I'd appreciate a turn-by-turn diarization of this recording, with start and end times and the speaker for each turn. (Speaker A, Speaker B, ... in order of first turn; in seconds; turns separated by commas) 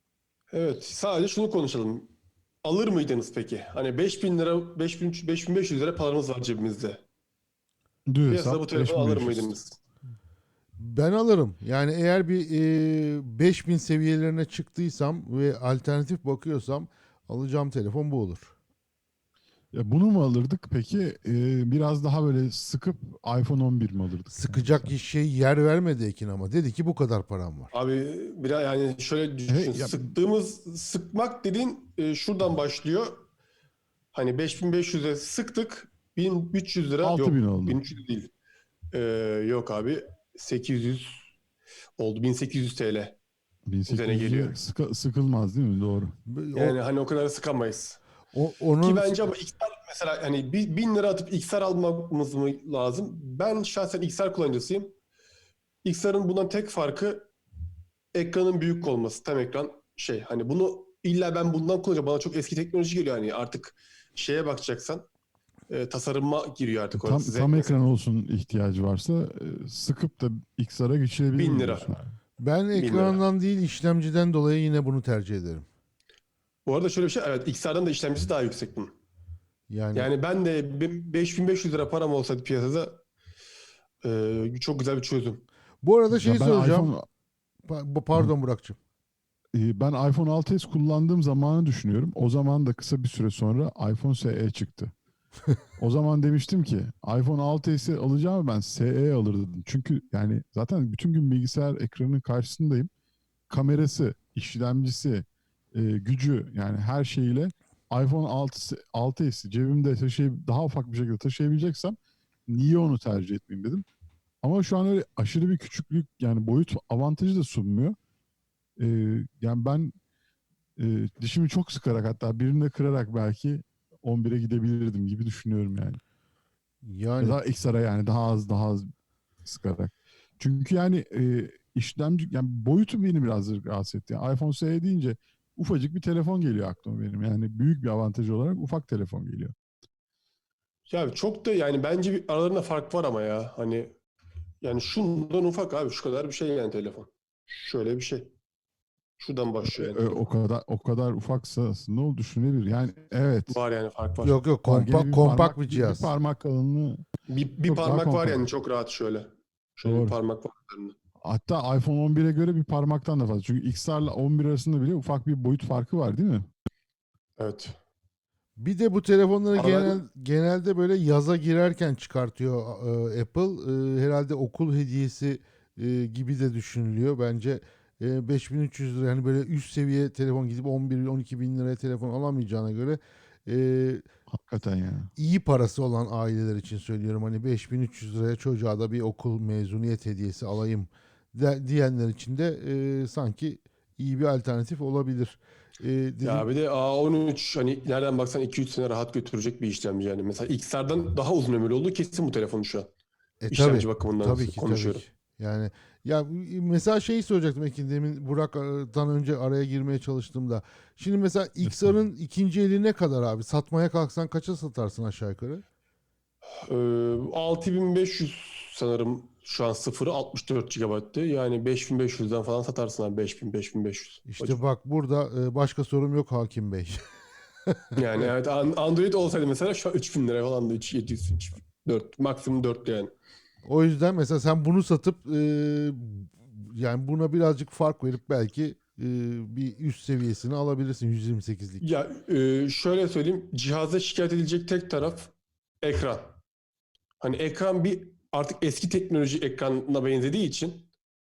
Speaker A: 0.5-2.1, Speaker A: 2.6-7.0, Speaker B: 8.1-9.5, Speaker A: 8.3-9.8, Speaker C: 10.8-18.5, Speaker B: 19.7-24.9, Speaker C: 24.3-27.7, Speaker A: 27.7-33.2, Speaker B: 29.5-30.1, Speaker A: 34.1-38.3, Speaker B: 37.0-37.8, Speaker A: 38.9-41.2, Speaker A: 42.0-43.2, Speaker B: 43.7-46.1, Speaker A: 43.9-44.5, Speaker C: 46.3-46.8, Speaker A: 46.5-48.0, Speaker C: 48.3-49.3, Speaker A: 48.8-54.9, Speaker A: 55.8-57.3, Speaker A: 58.1-65.0, Speaker A: 65.7-67.8, Speaker B: 66.9-72.1, Speaker A: 71.3-71.9, Speaker C: 72.4-75.7, Speaker A: 72.7-73.2, Speaker A: 76.7-78.9, Speaker C: 79.7-80.1, Speaker A: 79.9-83.0, Speaker A: 84.0-85.4, Speaker C: 85.8-86.9, Speaker B: 86.1-87.0, Speaker C: 87.7-88.8, Speaker B: 89.5-94.9, Speaker B: 95.8-102.9, Speaker B: 103.5-113.8, Speaker B: 114.4-118.0, Speaker B: 118.8-119.9, Speaker B: 120.8-126.0, Speaker C: 126.8-127.4, Speaker B: 127.2-128.9, Speaker B: 129.4-139.5, Speaker A: 140.9-143.9, Speaker A: 144.6-148.3, Speaker A: 149.2-150.2, Speaker B: 149.6-153.6, Speaker A: 153.5-154.4, Speaker C: 154.2-156.1, Speaker B: 154.6-157.0, Speaker A: 157.3-160.9, Speaker B: 157.6-158.5, Speaker B: 159.8-160.2, Speaker B: 161.2-166.5, Speaker A: 167.4-167.8, Speaker C: 168.6-184.0, Speaker A: 169.5-170.0, Speaker B: 184.3-185.1, Speaker C: 185.2-196.4, Speaker A: 196.2-202.9, Speaker C: 203.4-215.6, Speaker A: 203.5-205.0, Speaker B: 211.6-211.9, Speaker A: 216.6-224.6, Speaker C: 224.3-227.0, Speaker C: 227.7-228.3, Speaker A: 227.9-233.1, Speaker C: 233.6-241.8, Speaker A: 241.8-245.3, Speaker A: 245.8-246.4, Speaker A: 247.2-250.9